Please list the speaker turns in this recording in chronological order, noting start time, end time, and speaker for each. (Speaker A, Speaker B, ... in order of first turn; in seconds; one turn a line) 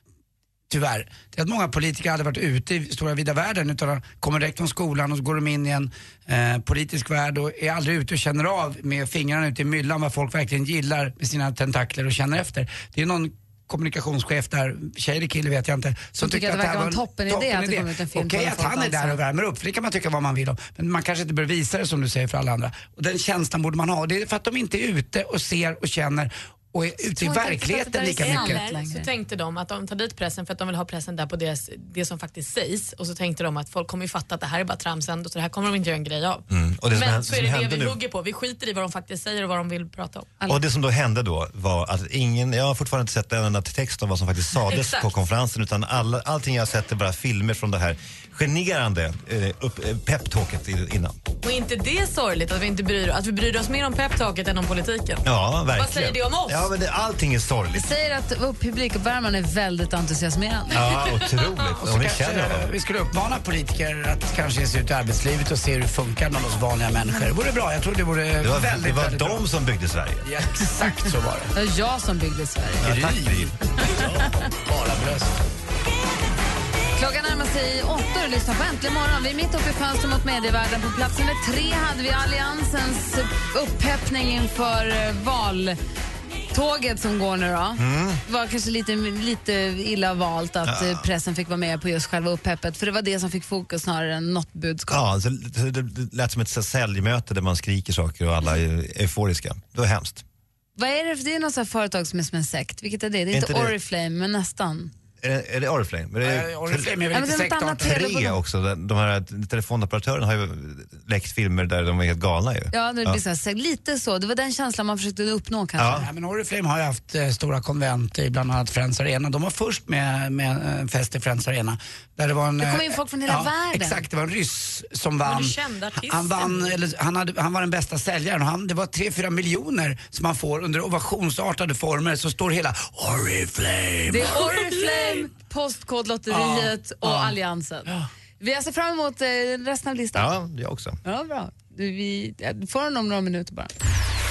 Speaker A: 0.7-28.6
Speaker B: 16.2-19.2
Speaker B: 27.1-29.1
Speaker C: 28.2-40.3
Speaker D: 36.5-38.0
Speaker D: 40.5-51.1
Speaker C: 44.7-45.1
Speaker C: 51.4-56.7
Speaker D: 55.2-57.9
Speaker B: 57.7-61.0
Speaker D: 60.7-62.7
Speaker A: 61.8-69.4
Speaker D: 68.4-70.3
Speaker A: 70.2-71.5
Speaker B: 71.5-72.9
Speaker D: 72.8-73.5
Speaker A: 72.8-75.4
Speaker B: 77.0-85.8
Speaker B: 86.5-95.0
Speaker D: 87.8-88.2
Speaker D: 90.6-91.0
Speaker D: 94.9-100.2
Speaker B: 100.8-104.9
Speaker D: 103.3-103.7
Speaker D: 105.2-107.0
Speaker A: 106.2-108.0
Speaker B: 107.1-108.4
Speaker D: 107.8-113.2
Speaker B: 112.7-116.0
Speaker D: 115.8-116.1
Speaker A: 116.0-134.9
Speaker B: 122.6-124.0
Speaker C: 125.2-126.8
Speaker B: 134.1-140.3
Speaker A: 136.3-137.4
Speaker D: 140.1-141.0
Speaker B: 141.0-143.7